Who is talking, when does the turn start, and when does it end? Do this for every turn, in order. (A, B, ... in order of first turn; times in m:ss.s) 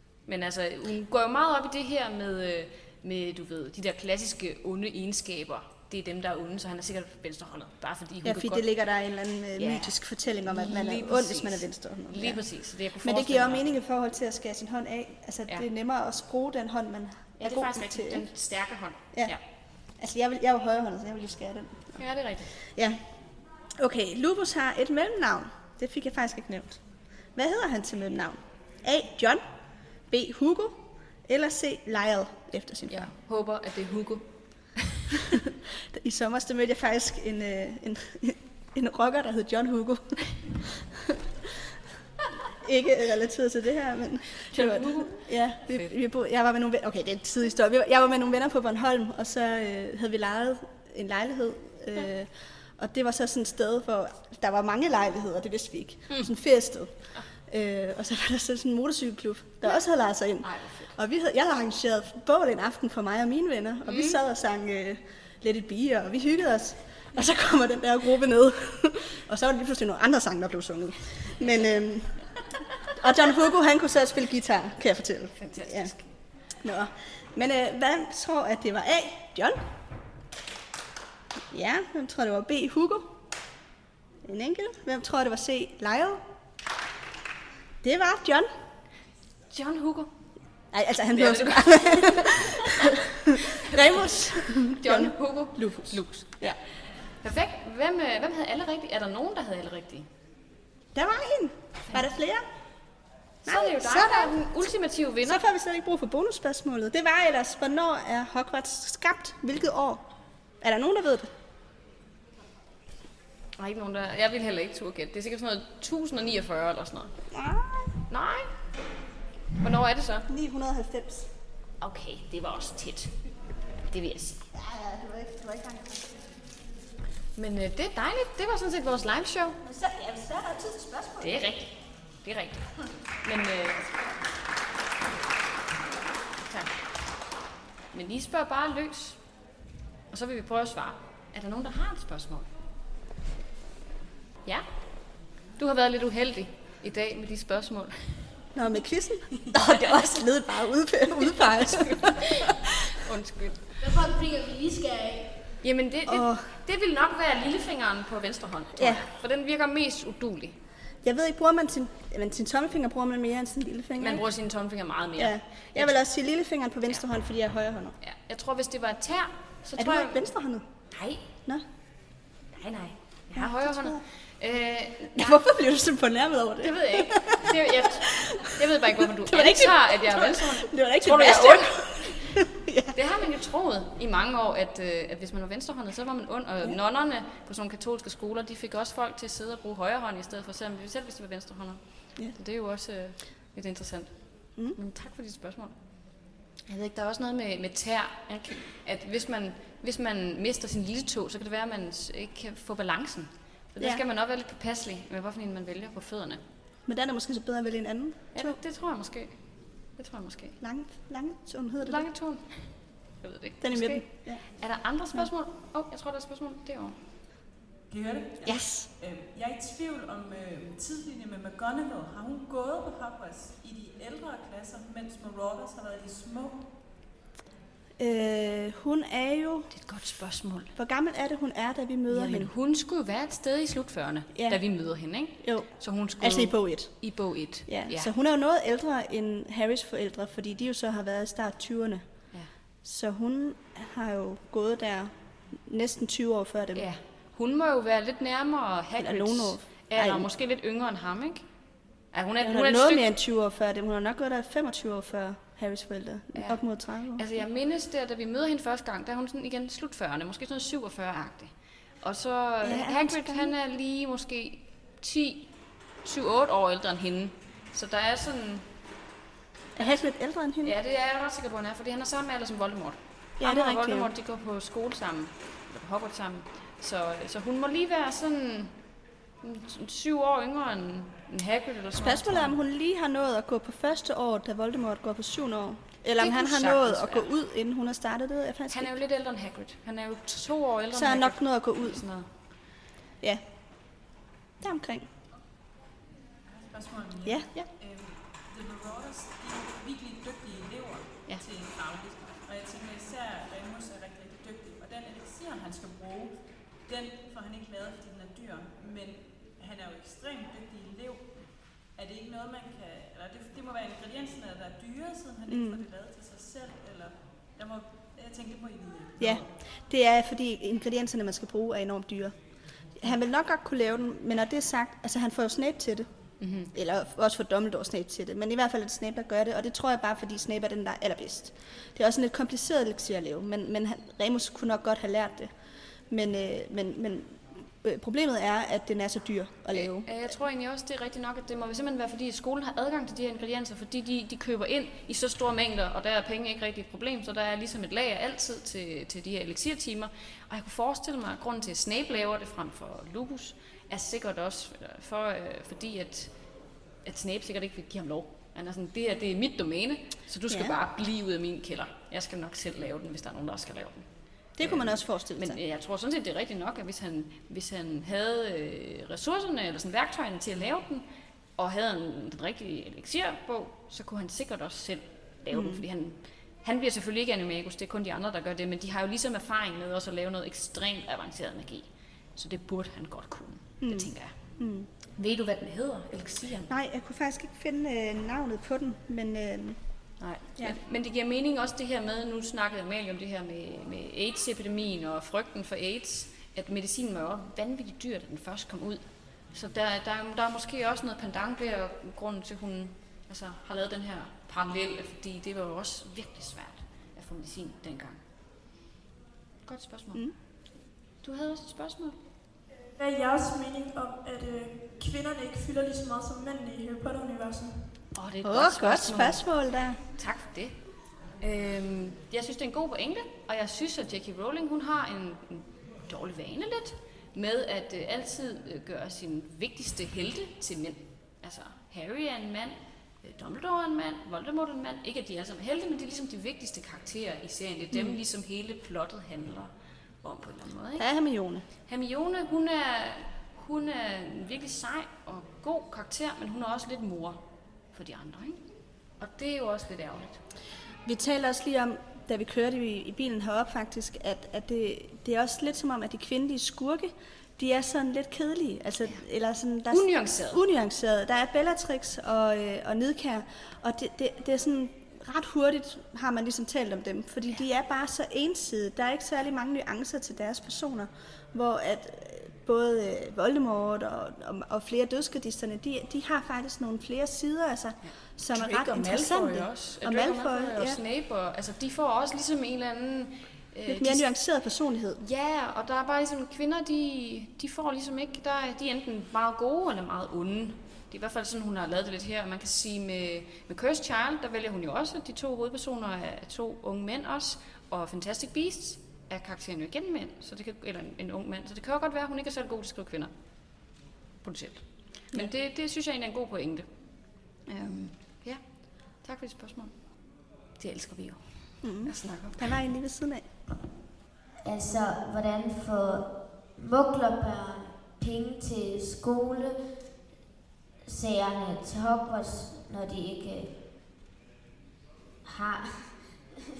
0:00.2-0:08.7 A
0:08.2-0:18.3 B
0:09.6-0:13.6 A
0:17.4-0:19.4 A
0:19.1-0:23.2 B
0:22.0-0:22.5 A
0:23.8-0:29.4 B
0:30.0-0:33.1 B
0:32.9-0:35.3 A
0:35.8-0:41.2 B
0:42.5-1:15.9 B
0:44.5-0:45.9 A
1:00.4-1:00.9 A
1:03.8-1:04.2 A
1:15.4-1:16.1 A
1:16.5-1:19.7 B
1:21.5-1:23.2 B
1:24.2-1:26.2 B
1:27.8-1:28.5 B
1:29.5-1:30.1 A
1:30.7-1:36.6 B
1:31.1-1:33.0 A
1:33.6-1:40.1 A
1:40.9-1:42.4 B
1:43.4-1:44.5 B
1:43.4-1:45.4 A
1:45.2-1:51.3 B
1:53.6-1:57.1 A
1:57.3-1:57.9 B
1:58.1-1:58.5 A
1:59.6-2:00.3 A
2:00.3-2:01.3 B
2:01.8-2:04.4 A
2:04.5-2:06.1 B
2:07.4-2:09.6 A
2:09.6-2:11.6 B
2:11.2-2:13.9 A
2:16.4-2:16.8 A
2:17.9-2:19.4 A
2:20.1-2:22.5 A
2:24.4-2:28.4 A
2:28.5-2:32.2 B
2:29.5-2:34.0 A
2:33.8-2:35.4 C
2:35.6-2:40.6 A
2:36.1-2:36.6 B
2:38.8-2:39.1 B
2:41.0-2:44.2 B
2:44.0-2:46.0 A
2:45.2-2:48.0 B
2:48.0-2:50.3 A
2:49.8-2:50.6 B
2:50.9-2:51.2 A
2:52.5-2:55.4 A
2:53.4-2:54.0 B
2:55.1-2:57.5 B
2:56.6-3:16.0 A
2:58.1-2:58.4 B
2:59.3-3:03.0 B
3:16.6-3:26.4 A
3:26.8-3:28.6 B
3:28.3-3:30.6 A
3:30.6-3:32.1 B
3:31.8-3:37.0 A
3:33.6-3:34.5 B
3:37.9-3:46.7 D
3:38.4-3:38.9 B
3:48.0-3:49.7 B
3:49.7-3:50.7 A
3:50.8-3:52.5 B
3:52.1-3:58.1 A
3:54.3-3:54.7 B
3:55.4-4:06.9 B
4:06.7-4:11.5 A
4:09.0-4:10.3 B
4:12.1-4:13.1 A
4:12.4-4:17.2 B
4:16.3-4:28.7 A
4:22.6-4:23.5 B
4:29.8-4:30.7 B
4:30.6-4:38.9 A
4:33.4-4:34.1 B
4:39.4-4:42.5 A
4:42.0-4:49.0 B
4:46.2-4:47.3 A
4:48.7-4:52.3 A
4:50.9-4:52.0 B
4:53.2-4:55.1 B
4:56.5-5:19.5 D
4:57.2-4:57.7 B
5:15.5-5:15.8 B
5:19.2-5:26.1 B
5:26.4-5:26.7 A
5:26.7-5:35.5 B
5:36.1-5:40.2 B
5:39.7-6:24.6 A
6:00.5-6:00.7 B
6:04.6-6:05.6 B
6:15.5-6:15.8 B
6:23.8-6:24.9 B
6:25.1-6:26.7 A
6:26.7-6:29.8 B
6:30.2-6:48.2 A
6:49.6-6:50.3 A
6:51.2-6:52.2 A
6:52.9-6:58.1 E
6:58.1-7:21.1 A
6:58.4-7:00.0 B
7:17.9-7:18.2 B
7:21.0-7:21.6 B
7:21.7-7:30.4 A
7:31.0-8:01.0 B
7:39.9-7:40.6 A
7:58.0-8:04.3 A
8:03.9-8:05.2 B
8:05.2-8:32.7 A
8:31.8-8:33.5 B
8:34.6-8:39.9 C
8:41.0-8:43.8 C
8:45.4-8:46.5 C